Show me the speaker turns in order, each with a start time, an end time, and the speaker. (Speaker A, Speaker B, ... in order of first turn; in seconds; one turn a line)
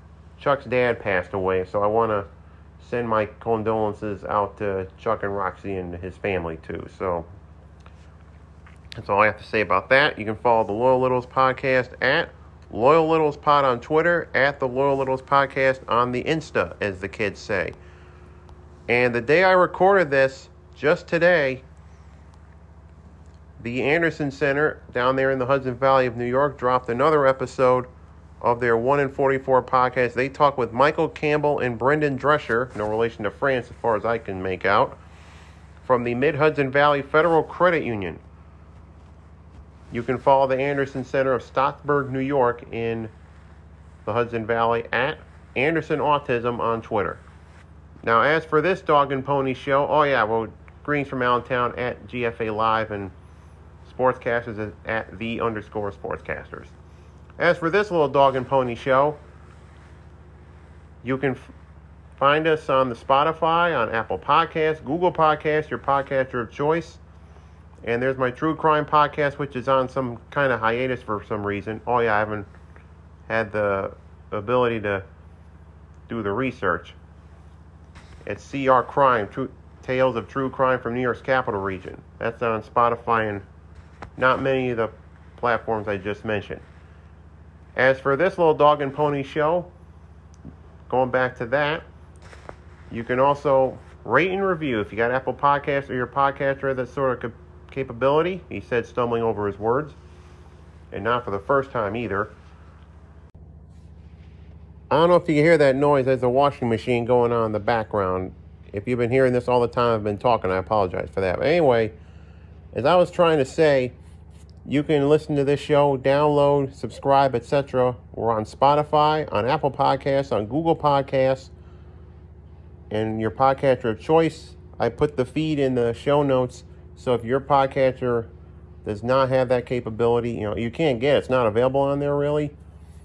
Speaker A: 0.4-7.3
Speaker A: 9.0-17.8
Speaker A: 18.9-21.6
Speaker A: 23.6-27.9
Speaker A: 28.4-35.0
Speaker A: 35.8-38.2
Speaker A: 39.9-43.1
Speaker A: 44.0-47.2
Speaker A: 48.0-53.1
Speaker A: 53.9-56.7
Speaker A: 57.4-59.2
Speaker A: 61.0-61.5
Speaker A: 62.2-67.0
Speaker A: 67.8-72.5
Speaker A: 73.3-75.1
Speaker A: 76.1-77.0
Speaker A: 78.2-83.5
Speaker A: 84.2-86.6
Speaker A: 87.8-89.7
Speaker A: 90.9-91.8
Speaker A: 92.9-100.0
Speaker A: 100.9-102.3
Speaker A: 104.9-112.0
Speaker A: 112.7-114.0
Speaker A: 114.7-121.5
Speaker A: 122.9-128.3
Speaker A: 128.8-132.6